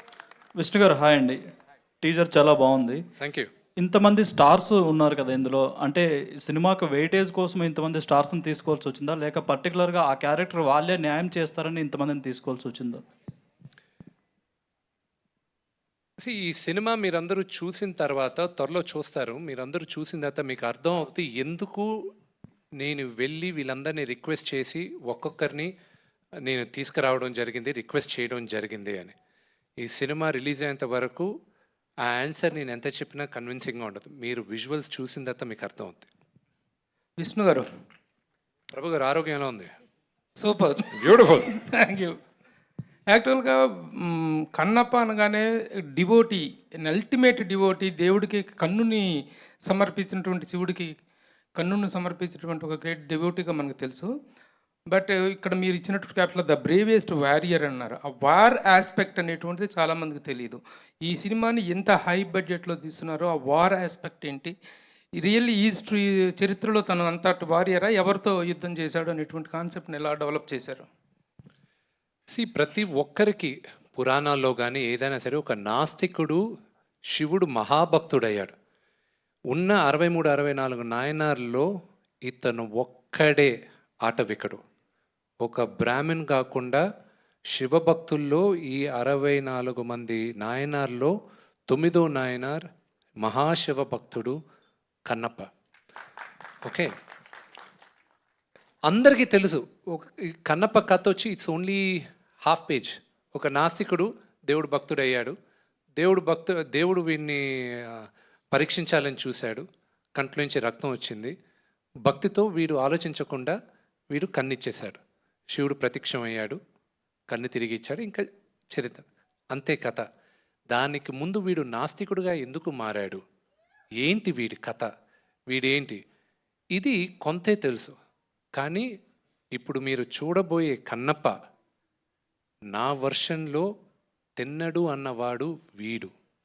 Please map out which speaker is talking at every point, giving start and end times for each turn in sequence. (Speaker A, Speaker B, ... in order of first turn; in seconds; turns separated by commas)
Speaker A: 0.6-1.4, Speaker A: 2.0-3.0, Speaker B: 3.2-3.5, Speaker A: 3.8-13.0, Speaker B: 16.2-21.9, Speaker B: 22.8-25.7, Speaker B: 26.4-29.1, Speaker B: 29.8-31.3, Speaker B: 32.0-36.1, Speaker C: 37.2-37.6, Speaker B: 38.7-39.7, Speaker C: 40.4-40.9, Speaker B: 40.9-41.5, Speaker C: 41.4-42.1, Speaker C: 43.1-49.1, Speaker C: 49.6-50.9, Speaker C: 51.5-54.1, Speaker C: 54.9-64.5, Speaker C: 65.2-70.8, Speaker B: 72.3-76.4, Speaker B: 77.1-78.5, Speaker B: 79.5-81.7, Speaker B: 82.3-84.6, Speaker B: 85.4-86.8, Speaker B: 87.5-91.1, Speaker B: 91.7-92.6, Speaker B: 93.2-94.3, Speaker B: 95.0-95.5, Speaker B: 96.6-96.9, Speaker B: 98.8-105.3, Speaker B: 106.0-109.6, Speaker B: 110.2-111.3, Speaker B: 112.0-113.5, Speaker B: 114.1-115.0, Speaker B: 115.5-116.6, Speaker B: 117.3-120.0, Speaker B: 120.7-123.2, Speaker B: 124.0-124.9, Speaker B: 125.5-126.0, Speaker B: 126.7-127.9, Speaker B: 128.6-128.9, Speaker B: 129.5-131.3, Speaker B: 132.7-133.7, Speaker B: 134.4-136.1